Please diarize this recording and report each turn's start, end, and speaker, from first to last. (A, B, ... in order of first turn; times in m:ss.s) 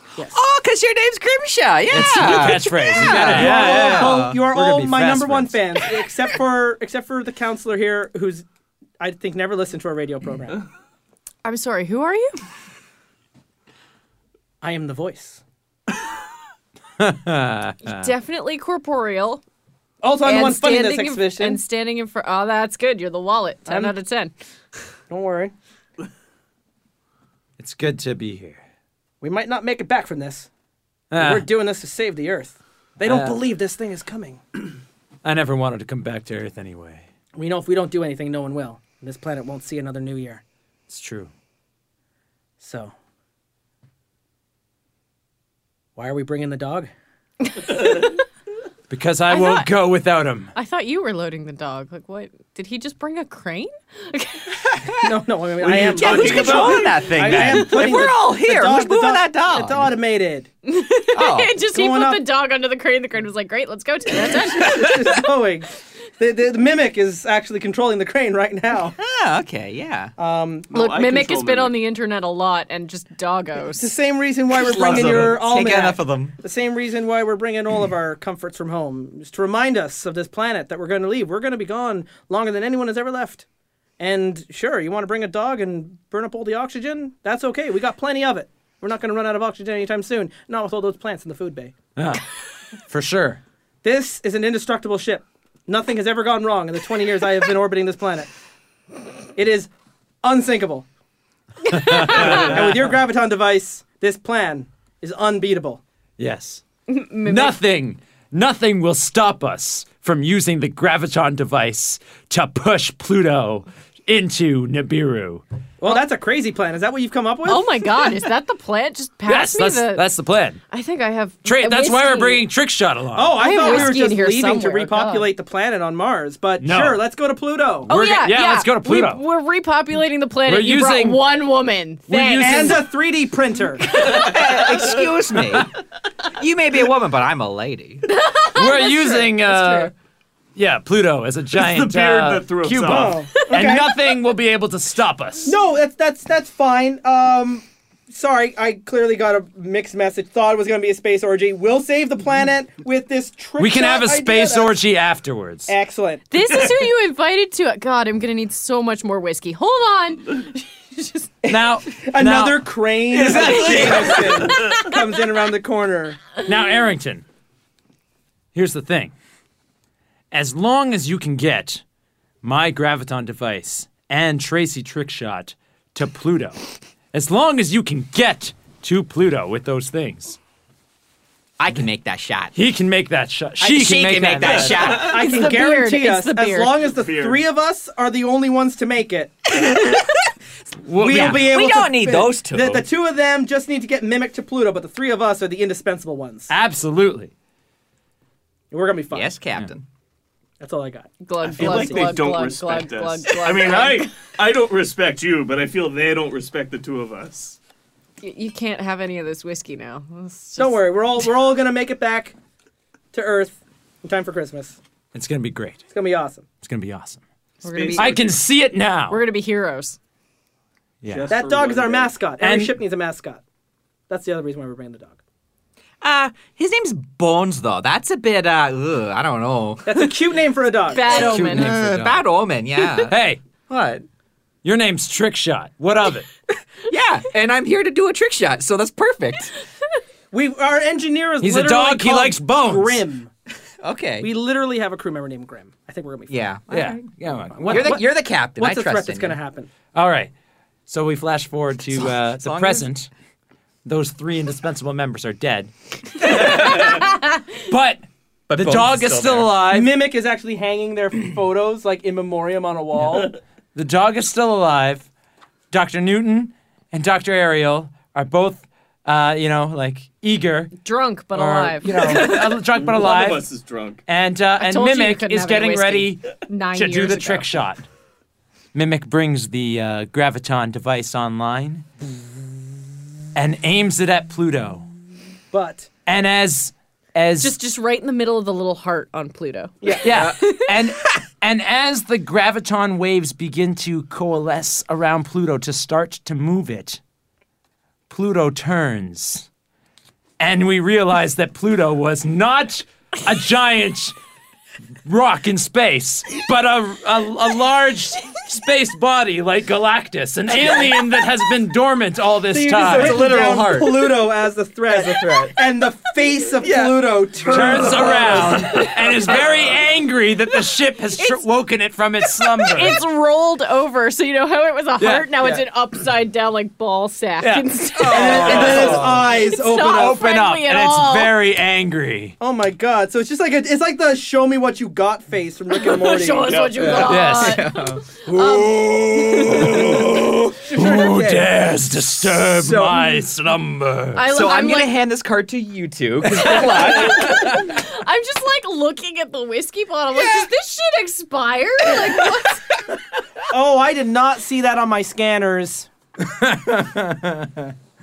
0:00.2-0:04.5 A
0:01.9-0:05.8 B
0:02.0-0:02.8 C
0:03.0-0:08.4 D
0:09.0-0:10.6 D
0:11.4-0:12.4 C
0:14.6-0:15.4 D
0:17.0-0:18.1 B
0:17.8-0:19.4 C
0:20.0-0:21.6 D
0:20.2-0:24.3 C
0:23.7-0:23.9 D
0:25.1-0:25.5 D
0:27.6-0:28.6 B
0:29.2-0:30.5 D
0:31.1-0:31.5 B
0:31.2-0:34.4 D
0:33.0-0:33.4 B
0:35.2-0:37.1 B
0:37.4-0:40.4 D
0:40.9-0:41.3 B
0:42.6-0:42.9 D
0:46.0-0:46.9 D
0:47.5-0:48.2 C
0:48.9-0:50.5 B
0:49.3-0:49.7 C
0:50.5-0:54.5 C
0:54.7-0:55.1 A
0:55.0-1:00.5 D
0:55.6-0:57.1 E
0:55.7-0:59.9 A
1:00.6-1:05.2 C
1:01.2-1:01.6 A
1:01.6-1:02.2 D
1:04.1-1:09.0 D
1:09.0-1:10.1 A
1:10.2-1:10.7 D
1:10.7-1:11.8 E
1:10.7-1:13.9 C
1:13.8-1:23.4 D
1:14.6-1:16.4 A
1:24.0-1:31.8 D
1:32.0-1:32.2 B
1:32.9-1:33.4 B
1:33.8-1:38.3 D
1:39.4-1:39.7 D
1:40.2-1:40.9 D
1:41.7-1:42.3 C
1:41.7-1:43.0 B
1:41.8-1:45.8 D
1:46.2-1:46.6 B
1:46.9-1:47.6 C
1:47.3-1:55.4 B
1:55.8-1:57.7 D
1:57.5-2:00.1 C
1:59.3-2:00.6 B
2:00.7-2:02.4 C
2:01.4-2:04.0 B
2:03.2-2:07.9 D
2:03.4-2:05.3 C
2:06.6-2:07.0 B
2:07.9-2:09.2 B
2:07.9-2:12.8 C
2:10.5-2:11.2 B
2:12.1-2:12.9 B
2:12.4-2:14.2 D
2:14.0-2:15.7 A
2:16.4-2:18.0 A
2:18.1-2:19.9 C
2:18.6-2:19.9 B
2:20.6-2:25.6 B
2:21.5-2:23.2 E
2:22.8-2:23.9 D
2:25.4-2:34.8 D
2:33.6-2:35.7 B
2:35.7-2:36.2 D
2:36.3-2:41.3 C
2:41.5-2:46.3 D
2:41.5-2:42.7 B
2:43.1-2:44.7 A
2:43.3-2:45.0 C
2:46.4-2:47.2 B
2:48.5-2:49.1 B
2:50.3-2:51.8 B
2:52.4-2:56.6 B
2:57.1-3:00.4 B
3:01.6-3:02.5 A
3:02.6-3:05.0 B
3:03.6-3:05.4 A
3:04.4-3:05.0 E
3:04.8-3:09.8 D
3:05.0-3:06.8 C
3:06.9-3:07.4 E
3:09.7-3:10.0 A
3:10.8-3:11.6 B
3:11.0-3:16.5 D
3:11.1-3:12.9 A
3:16.5-3:17.3 B
3:18.7-3:19.4 D
3:19.1-3:19.8 A
3:20.6-3:22.2 D
3:21.2-3:24.1 C
3:21.5-3:27.6 E
3:28.2-3:30.8 C
3:30.6-3:32.4 D
3:33.1-3:34.8 D
3:35.1-3:35.8 B
3:35.9-3:36.5 D
3:36.6-3:37.2 B
3:37.6-3:38.2 C
3:37.6-3:38.3 E
3:38.0-3:39.2 B
3:39.1-3:40.0 C
3:41.0-3:41.3 B
3:41.1-3:42.1 E
3:41.3-3:43.4 D
3:42.4-3:42.8 B
3:44.1-3:45.2 D
3:46.0-3:50.1 A
3:49.8-3:51.3 D
3:50.9-3:51.8 C
3:51.1-3:53.2 A
3:51.1-3:52.2 B
3:53.1-3:53.4 B
3:53.7-3:54.0 A
3:54.6-3:56.3 B
3:56.9-3:59.5 A
4:00.3-4:03.3 D
4:01.4-4:03.1 B
4:03.8-4:04.3 A
4:04.2-4:06.4 D
4:06.3-4:09.4 A
4:06.7-4:08.0 B
4:07.7-4:09.7 D
4:09.9-4:10.3 B
4:10.9-4:13.1 B
4:12.1-4:12.9 A
4:13.8-4:19.9 B
4:16.6-4:17.0 E
4:18.5-4:19.6 A
4:19.7-4:23.4 D
4:23.8-4:25.1 B
4:25.7-4:30.7 B
4:30.8-4:32.2 C
4:31.3-4:33.5 B
4:32.0-4:34.0 E
4:34.1-4:37.9 B
4:34.6-4:37.6 C
4:38.7-4:41.9 B
4:43.4-4:44.9 B
4:45.5-4:45.9 D
4:46.1-4:47.6 B
4:47.4-4:50.7 C
4:50.0-4:57.0 B
4:50.0-4:50.4 A
4:58.1-4:59.5 B
5:00.4-5:04.2 B
5:05.0-5:13.4 B
5:12.5-5:18.9 D
5:12.8-5:14.2 A
5:14.9-5:15.6 A
5:16.6-5:18.8 A
5:17.4-5:23.0 B
5:21.2-5:21.4 C
5:22.5-5:31.4 C
5:25.0-5:25.6 B
5:27.4-5:29.2 B
5:28.0-5:29.3 A
5:28.1-5:30.3 D
5:29.8-5:32.4 B
5:32.4-5:36.7 D
5:35.7-5:39.9 C
5:36.5-5:37.2 E
5:36.7-5:38.2 A
5:37.0-5:37.7 B
5:38.3-5:44.2 B
5:39.4-5:41.4 A
5:40.7-5:41.2 D
5:42.4-5:43.2 A
5:44.2-5:45.0 C
5:44.2-5:47.5 A
5:46.4-5:52.6 C
5:47.1-5:47.6 B
5:50.2-5:50.4 A
5:53.5-5:55.9 D
5:56.2-5:57.7 B